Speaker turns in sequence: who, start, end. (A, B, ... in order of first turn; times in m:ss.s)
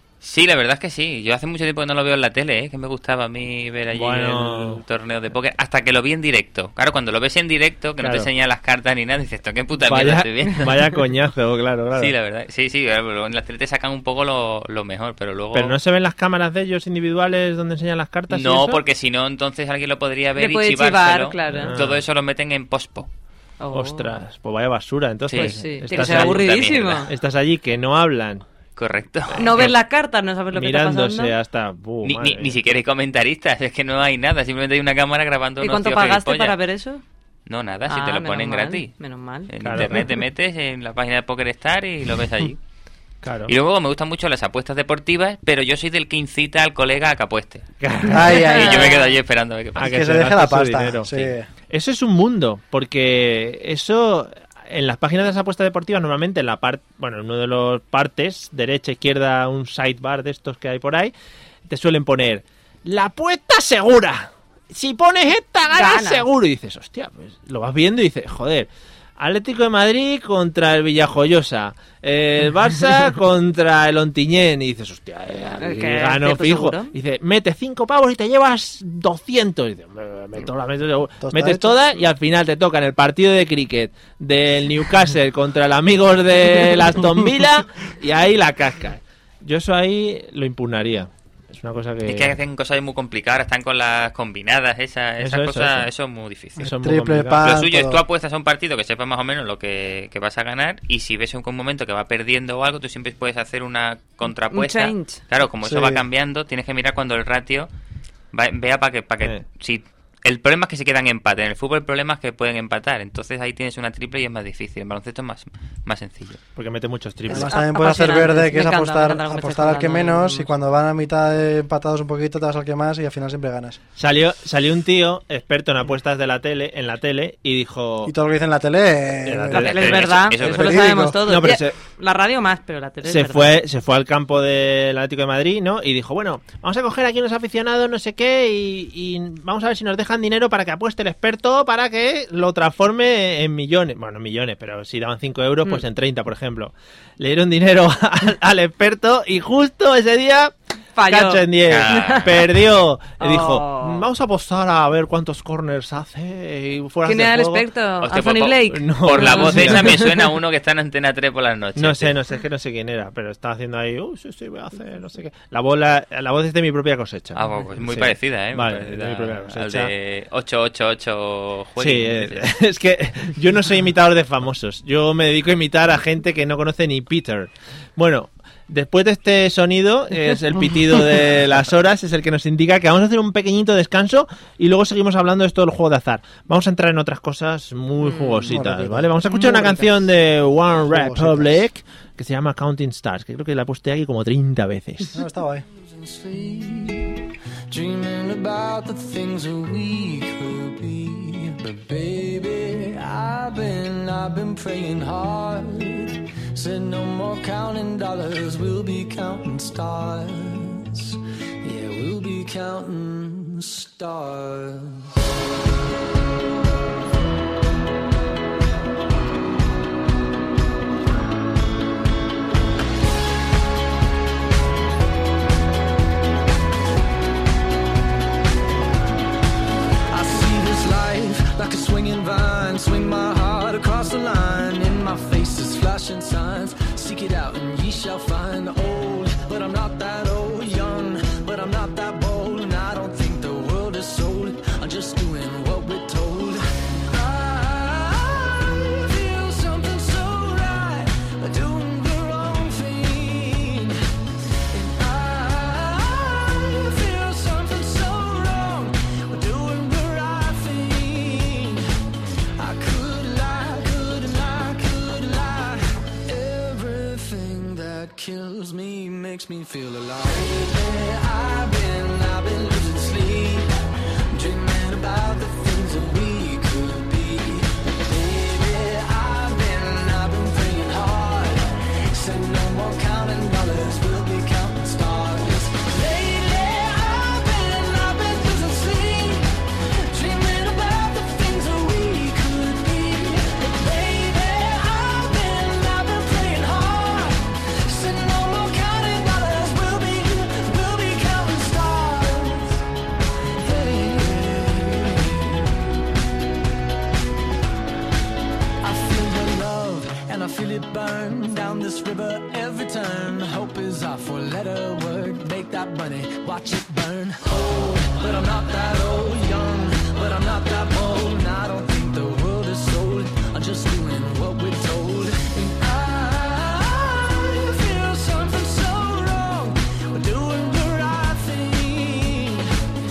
0:00.2-0:10.7 A
0:03.9-0:04.8 B
0:08.0-0:08.3 B
0:09.8-0:12.1 B
0:12.0-0:15.7 A
0:15.5-0:18.8 B
0:18.3-0:23.1 A
0:20.4-0:21.7 C
0:21.5-0:22.0 B
0:23.6-0:24.1 C
0:23.7-0:28.4 B
0:25.3-0:27.0 A
0:25.3-0:27.1 C
0:28.8-0:29.6 A
0:29.3-0:29.8 B
0:29.4-0:31.3 C
0:30.5-0:32.6 B
0:32.0-0:36.6 A
0:35.6-0:37.0 C
0:37.5-0:38.9 A
0:37.9-0:39.5 C
0:39.5-0:42.6 A
0:39.6-0:40.1 B
0:43.2-0:43.5 B
0:43.5-0:47.7 A
0:47.8-0:48.5 B
0:48.1-0:48.9 D
0:48.2-0:49.9 A
0:48.3-0:49.1 C
0:49.8-1:01.1 B
0:49.8-0:51.5 D
1:01.7-1:32.4 B
1:05.7-1:06.2 C
1:15.6-1:16.9 C
1:21.2-1:21.7 D
1:32.1-1:36.6 A
1:35.2-1:35.9 B
1:36.6-1:37.6 B
1:36.6-1:38.0 D
1:37.4-1:47.7 A
1:44.5-1:45.2 C
1:45.6-1:46.0 D
1:48.3-1:56.4 A
1:56.6-1:57.5 B
1:57.3-2:03.8 D
1:57.3-2:00.5 C
2:04.0-2:08.1 B
2:08.0-2:09.9 D
2:09.2-2:11.8 B
2:09.5-2:13.6 C
2:09.5-2:10.7 A
2:10.4-2:11.2 D
2:13.0-2:30.5 B
2:31.0-2:32.4 C
2:31.0-2:37.6 B
2:31.6-2:32.3 A
2:33.2-2:34.1 C
2:37.0-2:40.1 C
2:38.0-2:42.1 A
2:38.7-2:40.0 B
2:41.8-2:49.9 B
2:47.3-2:52.4 A
2:51.8-3:15.2 B
3:08.0-3:08.5 C
3:08.5-3:09.7 D
3:10.8-3:11.6 D
3:15.1-3:15.6 D
3:15.7-3:35.1 E
3:50.1-4:14.0 E
4:14.7-4:33.7 E
4:34.3-5:02.8 E
5:03.6-5:06.0 E
5:08.8-5:32.8 E